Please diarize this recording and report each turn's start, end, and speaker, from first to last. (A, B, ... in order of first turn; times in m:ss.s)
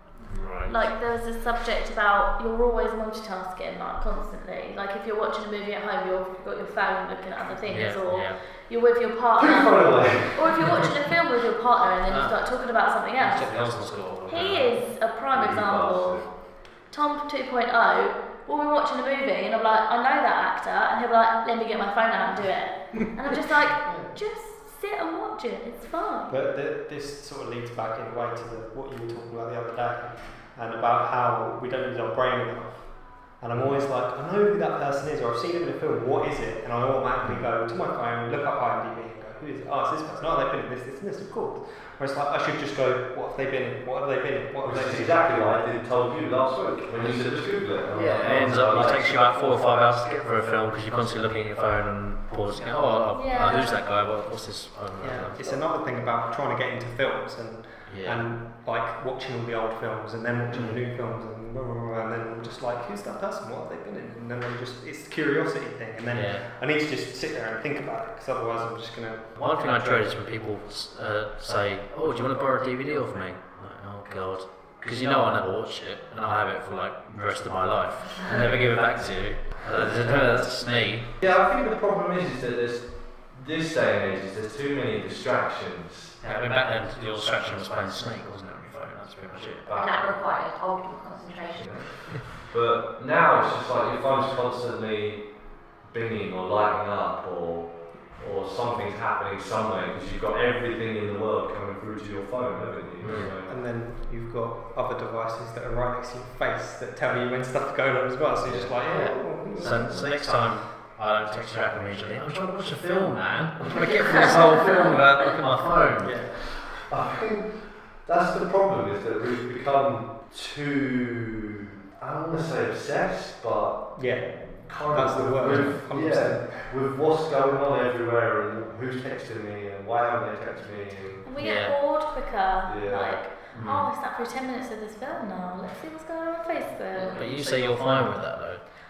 0:00.3-0:00.8 A
0:00.7-0:13.7 B
0:07.6-0:08.4 A
0:09.4-0:10.8 C
0:12.1-0:12.4 A
0:13.2-0:14.8 A
0:14.2-0:26.3 B
0:15.3-0:16.3 C
0:23.8-0:24.1 D
0:26.3-0:45.2 D
0:44.6-0:49.2 C
0:47.9-0:55.6 A
0:53.1-0:53.8 B
0:55.0-1:09.3 D
0:57.9-0:58.2 A
1:06.1-1:06.4 A
1:09.4-1:21.2 A
1:21.2-1:26.2 C
1:26.2-1:29.8 A
1:29.7-1:30.1 C
1:29.7-1:31.8 E
1:31.6-1:43.5 C
1:43.0-1:43.3 A
1:43.4-1:50.4 D
1:48.4-1:48.7 C
1:48.8-1:56.2 A
1:56.0-1:56.4 D
1:56.3-2:11.2 C
2:04.0-2:06.7 D
2:11.2-2:17.5 B
2:11.4-2:11.8 A
2:12.6-2:13.2 C
2:13.5-2:13.9 A
2:17.0-2:18.7 A